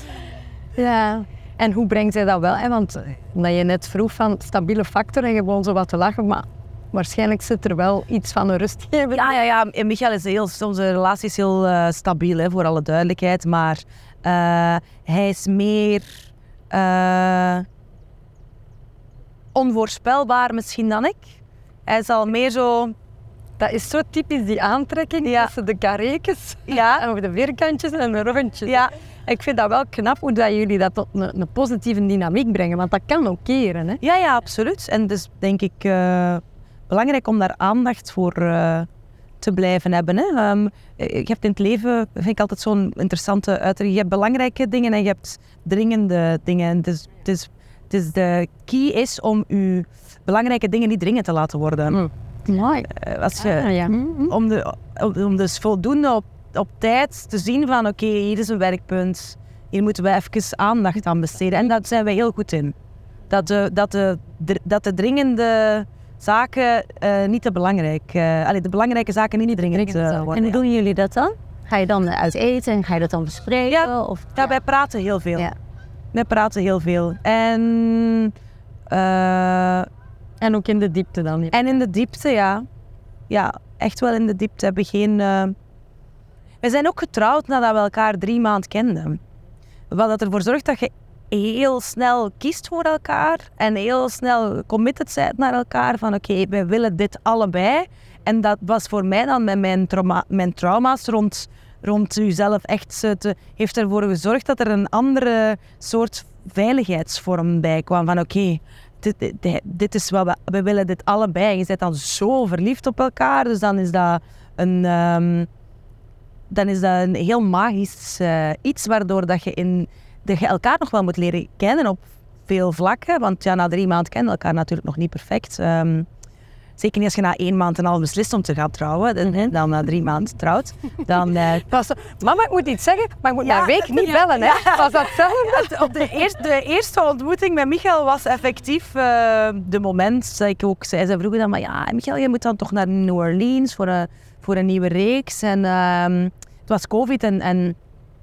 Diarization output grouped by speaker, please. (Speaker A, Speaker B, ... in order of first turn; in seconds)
Speaker A: 0.7-9.3, 23.6-34.0, 51.9-52.9, 53.4-54.3, 80.4-81.6, 131.7-136.2
Speaker B: 9.1-17.6, 19.5-22.9, 25.2-25.5, 26.7-27.0, 28.6-28.9, 34.0-38.9, 39.4-52.0, 52.9-62.7, 63.3-70.6, 73.7-75.5, 76.1-78.3, 78.9-79.9, 81.5-82.7, 83.3-85.5, 86.6-89.2, 89.9-115.5, 116.5-126.1, 126.8-131.7, 133.4-147.8
Speaker C: 69.8-74.5